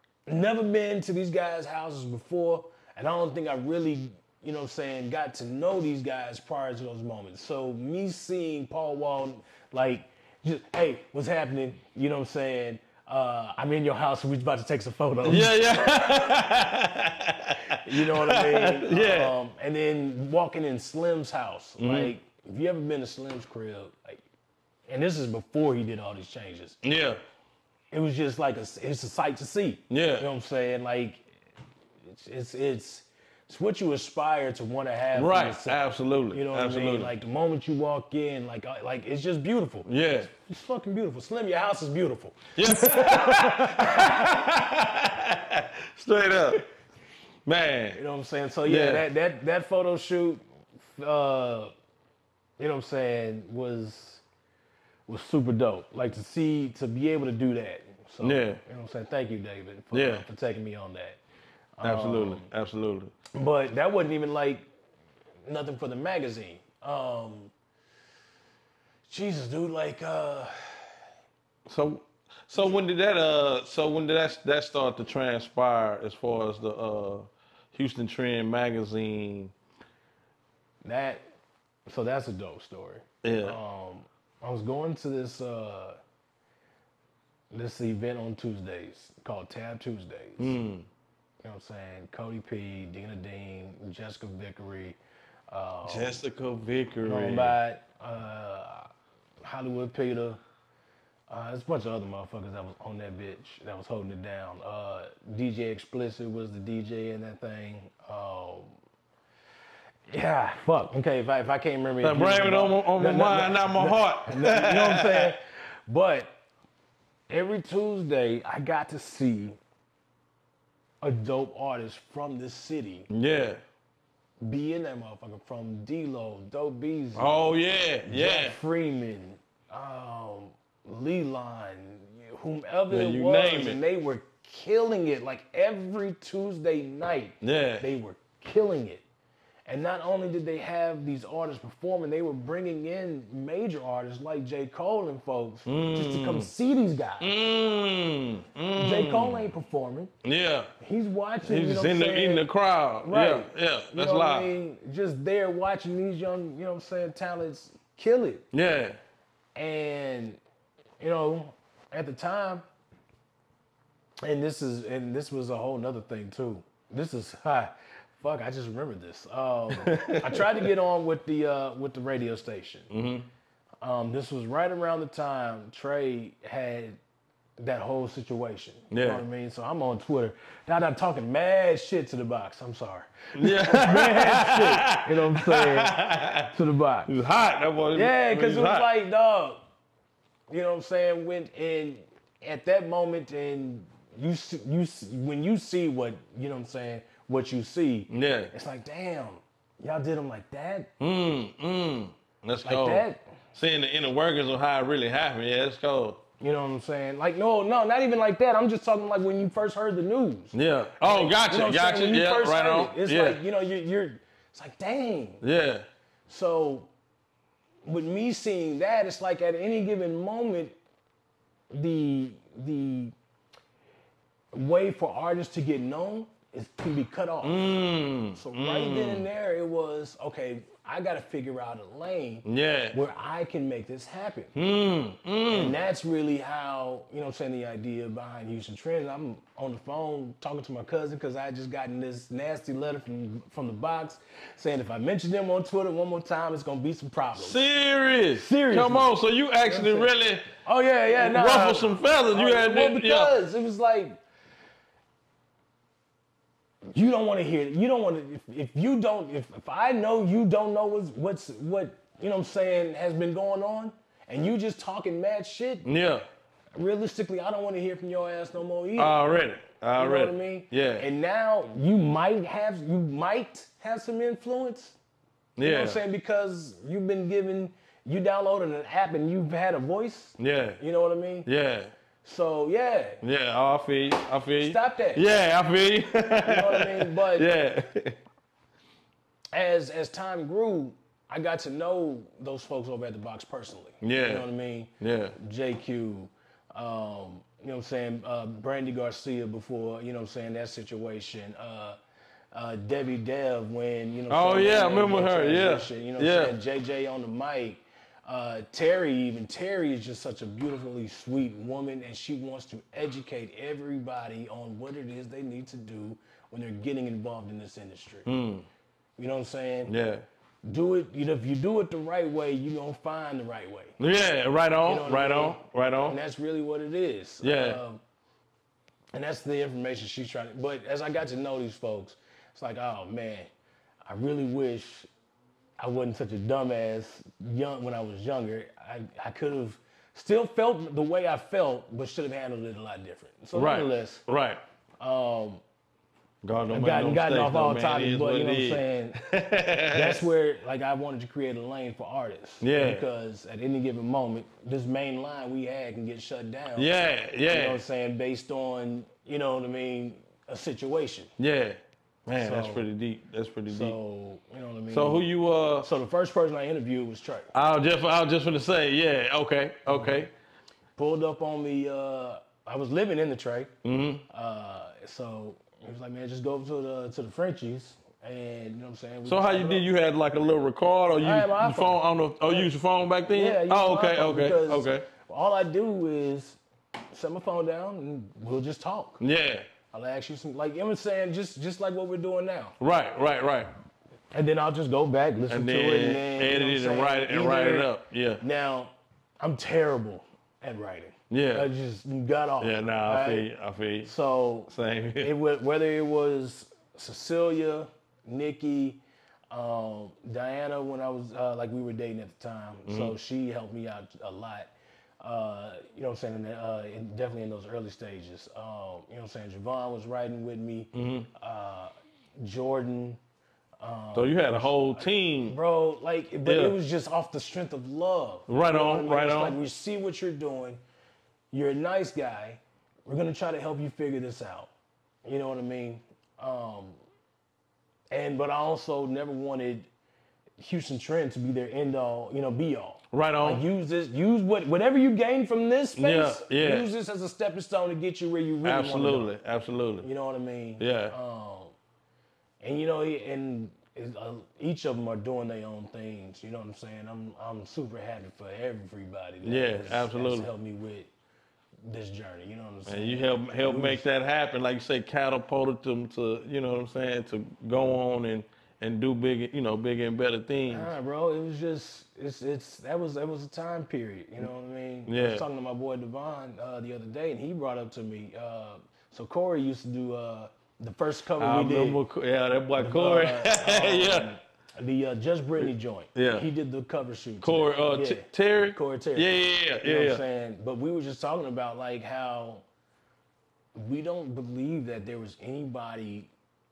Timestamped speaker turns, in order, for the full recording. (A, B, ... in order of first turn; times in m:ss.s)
0:00.3-0:15.6 A
0:15.2-0:19.4 B
0:17.7-0:24.2 A
0:21.8-0:22.1 B
0:24.9-0:26.8 A
0:26.8-0:27.2 B
0:27.9-0:31.2 A
0:29.9-0:30.2 B
0:32.0-0:35.8 A
0:35.1-0:37.1 B
0:36.3-0:44.3 A
0:39.8-0:40.3 B
0:42.6-0:46.6 B
0:47.4-0:48.0 B
0:47.9-0:51.7 A
0:48.6-0:49.0 B
0:52.6-0:54.2 A
0:55.1-1:01.2 A
0:58.2-0:58.6 B
0:59.9-1:00.2 B
1:01.8-1:02.5 A
1:01.8-1:03.1 B
1:03.3-1:04.7 A
1:05.4-1:07.5 A
1:09.1-1:10.9 A
1:11.6-1:19.5 B
1:20.8-1:21.2 A
1:21.9-1:26.0 A
1:23.2-1:23.6 B
1:27.5-1:30.6 A
1:30.4-1:30.8 B
1:31.4-1:35.0 A
1:35.5-1:36.2 A
1:35.8-1:37.6 B
1:37.0-1:38.9 A
1:39.4-1:40.4 A
1:41.3-1:48.7 A
1:50.1-1:56.3 A
1:52.0-1:55.3 B
1:57.3-1:59.6 A
2:01.0-2:03.1 A
2:03.1-2:03.6 B
2:04.4-2:07.5 A
2:07.2-2:08.6 B
2:08.0-2:19.0 A
2:12.9-2:13.8 B
2:17.4-2:17.8 B
2:19.7-2:27.3 A
2:25.7-2:26.5 B
2:27.2-2:29.5 B
2:28.8-2:30.1 A
2:30.2-2:30.7 B
2:30.8-2:32.5 A
2:31.4-2:34.5 B
2:33.0-2:38.4 A
2:38.5-2:39.0 B
2:39.6-2:40.4 A
2:41.0-2:42.6 A
2:44.2-2:52.9 A
2:49.7-2:50.7 B
2:52.9-2:53.3 B
2:53.8-2:57.0 A
2:57.6-3:06.0 A
2:58.9-2:59.2 B
3:03.3-3:06.5 B
3:06.5-3:07.1 A
3:07.1-3:08.9 B
3:07.9-3:09.6 A
3:10.5-3:20.9 A
3:18.1-3:18.5 B
3:21.0-3:26.2 B
3:22.6-3:23.2 A
3:26.4-3:35.4 A
3:30.5-3:33.4 B
3:35.4-3:35.9 B
3:36.3-3:36.9 A
3:37.8-3:40.8 A
3:41.7-3:43.1 A
3:44.5-3:47.7 A
3:47.4-3:49.2 B
3:48.3-3:54.5 A
3:52.4-3:53.0 B
3:54.5-3:55.8 B
3:55.5-4:07.7 A
4:07.4-4:10.5 B
4:08.4-4:09.1 A
4:09.6-4:14.2 A
4:11.2-4:13.3 B
4:16.9-4:25.9 A
4:25.8-4:26.2 B
4:26.8-4:29.3 A
4:29.0-4:31.0 B
4:30.0-4:35.0 A
4:35.6-4:36.0 B
4:35.6-4:41.5 A
4:40.4-4:40.8 B
4:41.4-4:41.9 B
4:42.2-4:43.2 A
4:43.2-4:48.2 B
4:44.6-4:45.2 A
4:46.4-4:47.5 A
4:49.5-5:02.0 A
4:54.0-4:54.4 B
4:55.0-4:55.3 B
5:02.5-5:18.3 A
5:04.3-5:06.6 B
5:18.2-5:18.7 B
5:19.2-5:19.9 A
5:19.8-5:20.2 B
5:20.6-5:24.0 A
5:24.0-5:26.2 B
5:24.8-5:28.0 A
5:27.4-5:27.8 B
5:29.1-5:33.5 A
5:34.1-5:35.1 A
5:35.8-5:44.2 A
5:43.5-5:44.6 B
5:45.0-5:45.6 A
5:46.4-5:50.2 B
5:46.7-5:49.2 A
5:49.9-5:56.9 A
5:52.6-5:53.0 B
5:56.8-5:57.8 B
5:57.5-6:01.3 A
6:01.4-6:04.0 B
6:02.4-6:02.8 A
6:03.7-6:05.2 A
6:04.9-6:05.9 B
6:05.8-6:07.5 A
6:07.5-6:10.3 B
6:09.9-6:10.3 A
6:11.0-6:13.7 A
6:13.8-6:14.2 B
6:14.3-6:19.8 A
6:19.2-6:25.0 B
6:21.2-6:22.7 A
6:23.3-6:26.6 A
6:27.1-6:29.2 A
6:29.2-6:29.6 B
6:29.9-6:32.7 A
6:32.8-6:33.7 B
6:34.3-6:37.9 A
6:35.5-6:38.4 B
6:38.4-6:43.5 A
6:41.3-6:41.7 B
6:42.6-6:44.1 B
6:44.0-7:03.2 A
6:44.7-6:45.3 B
6:52.9-6:53.1 B
7:00.9-7:01.3 B
7:03.8-7:10.8 A
7:04.1-7:05.6 B
7:06.4-7:06.8 B
7:08.5-7:09.6 B
7:11.5-7:14.7 A
7:15.2-7:17.0 A
7:18.1-7:19.9 A
7:20.6-7:29.3 A
7:23.1-7:23.6 B
7:26.0-7:26.9 B
7:28.6-7:30.1 B
7:30.0-7:31.7 A
7:30.8-7:31.1 B
7:32.6-7:41.1 A
7:39.4-7:40.5 B
7:41.8-7:44.0 A
7:42.9-7:50.9 B
7:50.7-8:02.0 A
7:55.1-7:55.4 B
8:01.4-8:04.3 B
8:02.8-8:09.3 A
8:06.1-8:06.4 B
8:07.4-8:10.2 B
8:09.8-8:12.6 A
8:13.7-8:16.3 A